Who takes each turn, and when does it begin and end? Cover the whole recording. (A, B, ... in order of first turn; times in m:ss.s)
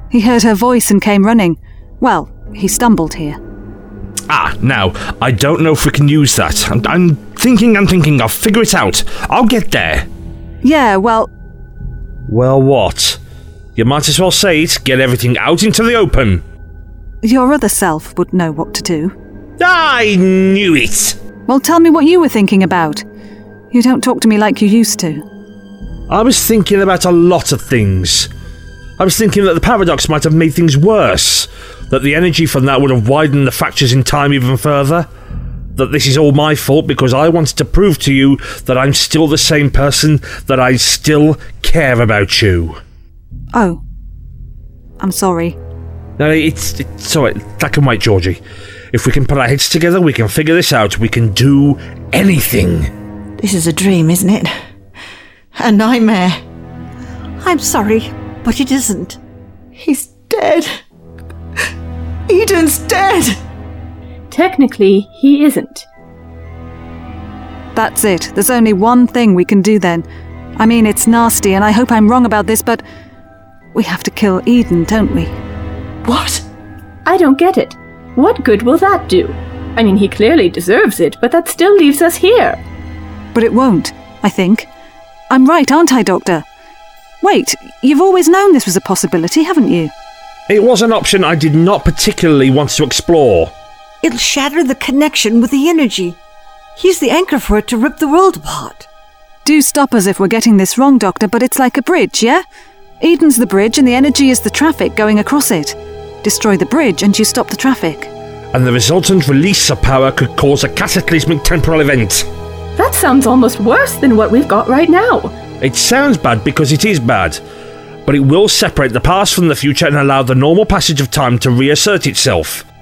0:00.1-0:03.4 A
0:04.3-0:10.1 B
0:10.6-0:11.3 A
0:12.3-0:13.2 B
0:13.8-0:16.4 B
0:17.2-0:19.2 A
0:19.6-0:21.2 B
0:21.5-0:23.0 A
0:23.7-0:25.3 A
0:26.1-0:28.3 B
0:29.0-0:35.1 B
0:35.8-0:42.8 B
0:43.5-0:43.8 A
0:45.0-0:45.6 A
0:46.2-0:48.4 B
0:48.9-0:52.9 B
0:53.4-0:54.5 C
0:55.6-0:56.4 C
0:57.4-0:59.2 D
0:59.8-1:00.7 C
1:02.3-1:03.4 C
1:04.3-1:05.9 E
1:07.8-1:10.1 A
1:10.6-1:12.8 A
1:13.7-1:15.4 A
1:16.0-1:16.4 C
1:17.0-1:22.6 E
1:23.3-1:24.7 A
1:25.3-1:26.4 A
1:27.2-1:29.9 A
1:30.5-1:33.5 B
1:34.0-1:36.2 D
1:36.8-1:38.9 D
1:39.4-1:42.4 A
1:43.0-1:48.1 A
1:48.5-1:52.3 B
1:52.8-1:55.4 E
1:55.6-1:57.4 B
1:58.1-2:02.6 B